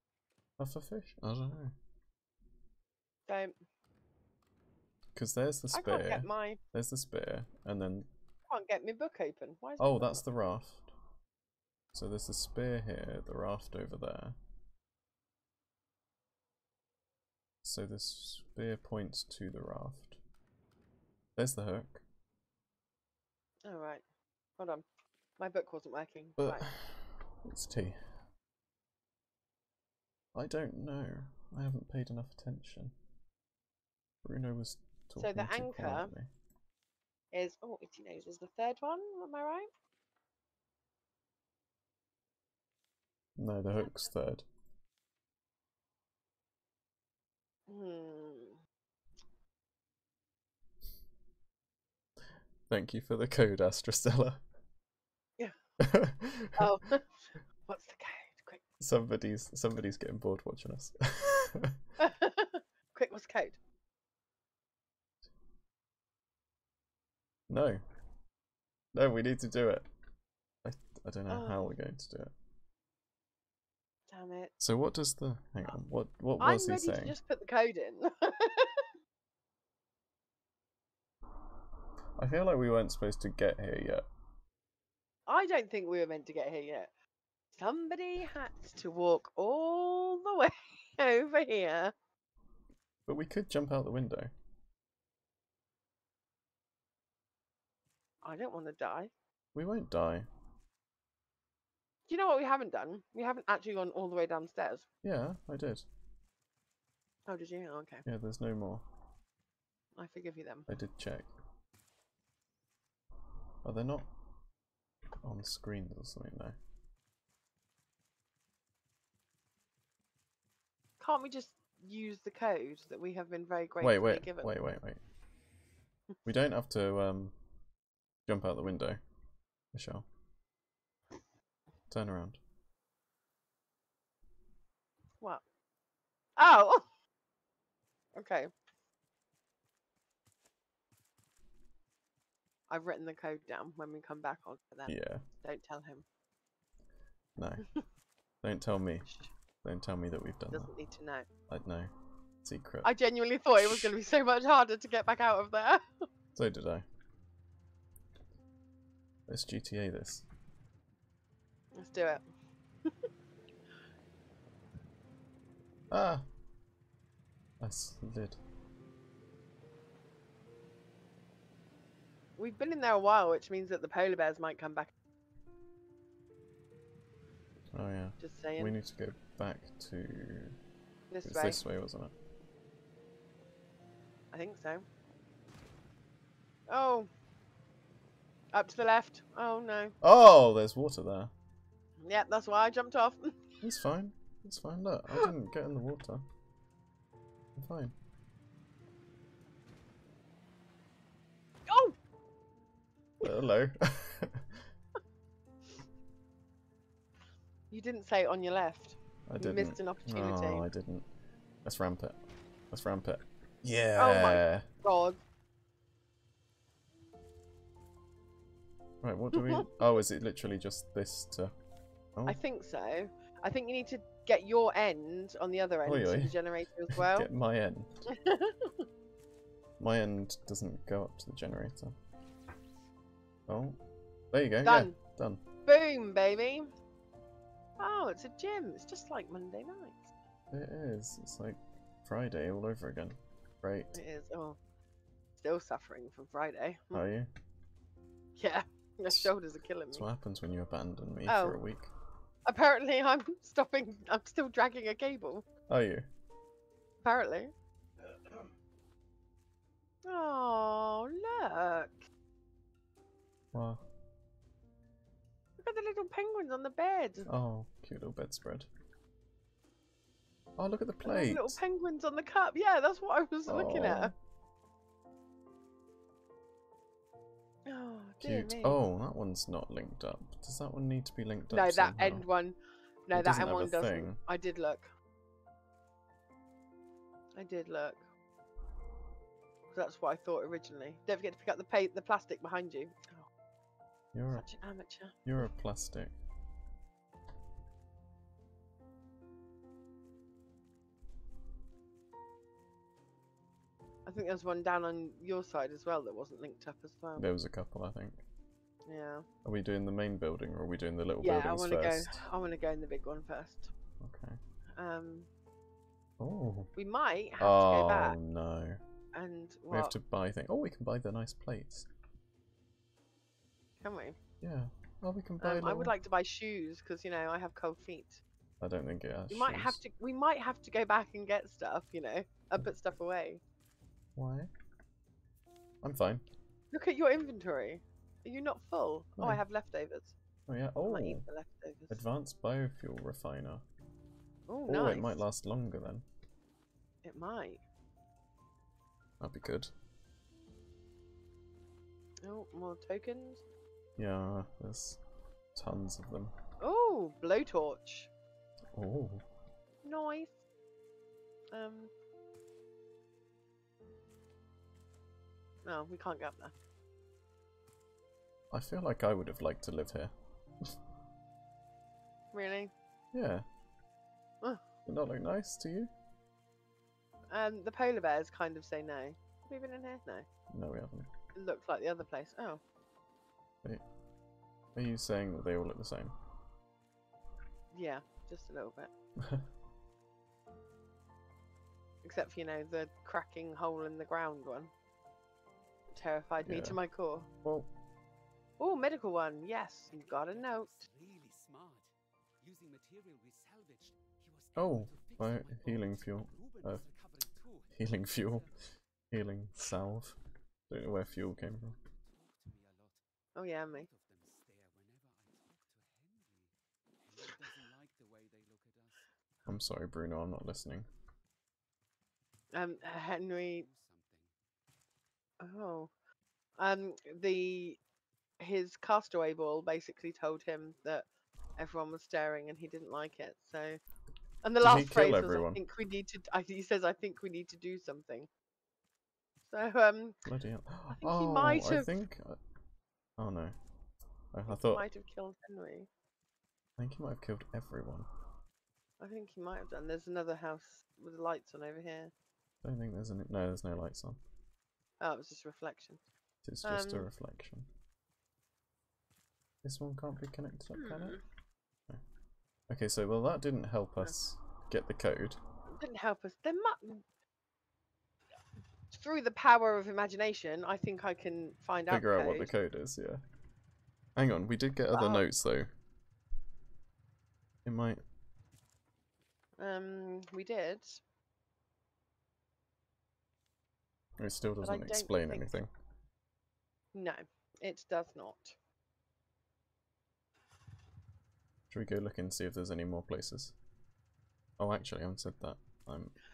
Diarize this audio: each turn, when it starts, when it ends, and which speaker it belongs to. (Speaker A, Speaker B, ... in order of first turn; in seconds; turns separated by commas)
Speaker A: 0.6-1.8, Speaker B: 3.3-3.5, Speaker A: 5.2-8.1, Speaker B: 5.7-6.6, Speaker B: 8.5-10.2, Speaker A: 9.8-10.9, Speaker A: 11.9-14.4, Speaker A: 17.6-20.2, Speaker A: 21.4-22.0, Speaker B: 23.6-24.0, Speaker B: 24.6-24.9, Speaker B: 25.4-26.7, Speaker A: 26.4-28.0, Speaker A: 30.3-33.0, Speaker A: 34.2-36.3, Speaker B: 35.2-36.1, Speaker B: 37.3-39.7, Speaker A: 43.4-44.5, Speaker B: 47.7-48.6, Speaker A: 52.7-54.4, Speaker A: 55.8-56.6, Speaker B: 56.6-58.6, Speaker A: 58.8-61.8, Speaker B: 62.0-63.6, Speaker A: 67.5-67.8, Speaker A: 68.9-69.9, Speaker A: 70.6-72.3, Speaker B: 71.3-71.7, Speaker B: 74.1-74.5, Speaker A: 74.6-77.2, Speaker B: 76.4-78.9, Speaker A: 82.2-84.0, Speaker B: 85.3-86.9, Speaker B: 87.5-91.9, Speaker A: 93.1-94.3, Speaker B: 98.2-99.1, Speaker A: 99.5-100.3, Speaker B: 102.1-104.9, Speaker A: 105.0-105.9, Speaker B: 107.3-108.0, Speaker A: 108.1-108.8, Speaker B: 110.0-110.7, Speaker A: 110.7-111.3, Speaker A: 113.6-114.1, Speaker A: 115.2-116.6, Speaker B: 121.0-124.6, Speaker A: 123.8-125.0, Speaker A: 126.2-127.3, Speaker A: 128.3-129.0, Speaker A: 129.7-130.1, Speaker A: 131.9-132.4, Speaker B: 136.4-136.8, Speaker B: 138.2-138.5, Speaker B: 142.7-146.1, Speaker A: 144.9-145.2, Speaker A: 147.4-147.7, Speaker A: 148.4-149.1, Speaker A: 149.6-150.7, Speaker B: 150.5-151.3, Speaker A: 151.5-151.9, Speaker A: 152.4-152.9, Speaker B: 152.8-156.1, Speaker A: 153.6-153.9, Speaker A: 156.4-156.9, Speaker A: 159.3-160.3, Speaker B: 161.7-162.2, Speaker A: 165.9-166.3, Speaker A: 167.6-168.4, Speaker B: 172.4-174.9, Speaker A: 177.7-180.6, Speaker B: 178.2-178.8, Speaker B: 181.1-181.6, Speaker A: 181.2-182.1, Speaker B: 184.3-184.9, Speaker B: 186.7-187.1, Speaker B: 188.5-189.9, Speaker A: 190.0-191.3, Speaker B: 192.0-193.6, Speaker A: 193.6-196.2, Speaker A: 197.6-197.9, Speaker B: 201.7-202.0, Speaker A: 203.2-204.6, Speaker B: 207.7-210.7, Speaker A: 209.3-211.1, Speaker A: 211.6-212.2, Speaker A: 212.7-214.7, Speaker B: 214.0-215.2, Speaker A: 219.0-221.5, Speaker B: 219.4-219.7, Speaker B: 222.3-227.3, Speaker A: 225.8-226.4, Speaker A: 226.9-228.1, Speaker B: 228.1-228.8, Speaker A: 229.8-231.9, Speaker A: 233.5-233.8, Speaker A: 234.3-235.4, Speaker B: 234.6-235.0, Speaker B: 235.7-236.7, Speaker B: 237.8-240.1, Speaker A: 240.5-243.9, Speaker B: 243.9-244.6, Speaker B: 245.4-247.0, Speaker A: 246.9-247.3, Speaker B: 248.4-250.1, Speaker A: 249.9-251.9, Speaker B: 251.3-251.6, Speaker B: 252.5-255.5, Speaker A: 255.7-256.1, Speaker B: 257.0-257.5, Speaker B: 260.0-262.0, Speaker A: 263.5-263.8, Speaker B: 265.6-267.3, Speaker A: 267.3-268.7, Speaker A: 270.6-271.6, Speaker B: 271.0-274.1, Speaker A: 273.5-274.1, Speaker B: 277.7-278.8, Speaker A: 278.2-282.3, Speaker B: 281.5-284.9, Speaker A: 283.1-284.2, Speaker B: 287.4-288.0, Speaker B: 289.7-293.3, Speaker A: 294.1-294.5, Speaker B: 294.3-295.4, Speaker A: 295.2-296.1, Speaker B: 304.1-307.3, Speaker A: 307.2-308.2, Speaker B: 308.9-309.3, Speaker A: 309.4-312.2, Speaker B: 311.2-313.7, Speaker A: 314.0-314.4, Speaker B: 314.8-315.3, Speaker A: 316.2-316.7, Speaker B: 316.8-318.2, Speaker A: 317.4-318.8, Speaker B: 319.1-319.9, Speaker A: 319.7-321.9, Speaker B: 323.8-324.2, Speaker A: 324.4-325.9, Speaker B: 325.4-328.2, Speaker A: 328.6-329.8, Speaker B: 329.3-333.4, Speaker A: 334.2-334.5, Speaker A: 335.8-336.3, Speaker B: 336.7-340.1, Speaker A: 340.5-341.2, Speaker B: 340.9-342.0, Speaker A: 341.9-343.6, Speaker B: 344.5-345.2, Speaker A: 344.7-346.1, Speaker B: 347.0-347.6, Speaker A: 349.2-349.7, Speaker B: 352.2-353.4, Speaker A: 354.0-355.0, Speaker A: 355.6-356.3, Speaker B: 356.6-358.1, Speaker A: 358.7-359.2, Speaker B: 359.8-360.4, Speaker B: 361.5-361.9, Speaker B: 365.6-366.5, Speaker A: 368.5-370.7, Speaker B: 372.3-372.7, Speaker A: 373.1-373.5, Speaker A: 374.9-375.9, Speaker B: 377.3-380.3, Speaker A: 380.5-381.1, Speaker B: 381.4-382.6, Speaker A: 384.8-386.1, Speaker B: 387.7-388.9, Speaker A: 389.2-389.5, Speaker B: 392.0-394.7, Speaker B: 395.9-397.3, Speaker A: 396.4-396.8, Speaker A: 397.4-397.7, Speaker B: 398.6-400.9, Speaker C: 399.9-408.7, Speaker A: 404.6-406.8, Speaker A: 407.7-408.5, Speaker A: 409.1-410.2, Speaker A: 410.7-411.7, Speaker C: 410.7-413.0, Speaker B: 413.4-413.9, Speaker C: 413.7-419.1, Speaker A: 419.5-420.9, Speaker B: 422.5-423.7, Speaker C: 423.3-424.3, Speaker B: 425.4-425.9, Speaker B: 426.6-427.8, Speaker B: 428.4-431.1, Speaker B: 431.6-433.8, Speaker B: 434.4-438.3, Speaker A: 434.6-435.6, Speaker B: 439.5-440.2, Speaker A: 440.3-442.4, Speaker B: 440.9-441.9, Speaker A: 443.2-443.6, Speaker A: 444.3-444.8, Speaker B: 444.5-445.9, Speaker A: 446.8-448.1, Speaker B: 449.0-452.1, Speaker A: 452.6-454.2, Speaker B: 455.0-456.0, Speaker A: 456.4-457.7, Speaker B: 456.6-457.1, Speaker A: 459.6-461.2, Speaker B: 460.8-461.2, Speaker A: 462.7-465.4, Speaker B: 465.7-467.0, Speaker B: 468.9-472.5, Speaker A: 471.9-473.2, Speaker A: 474.2-475.7, Speaker B: 474.9-475.2, Speaker A: 477.6-478.0, Speaker B: 479.6-481.0, Speaker A: 484.2-485.7, Speaker B: 484.6-485.5, Speaker B: 486.9-488.6, Speaker A: 491.7-493.6, Speaker A: 494.6-496.1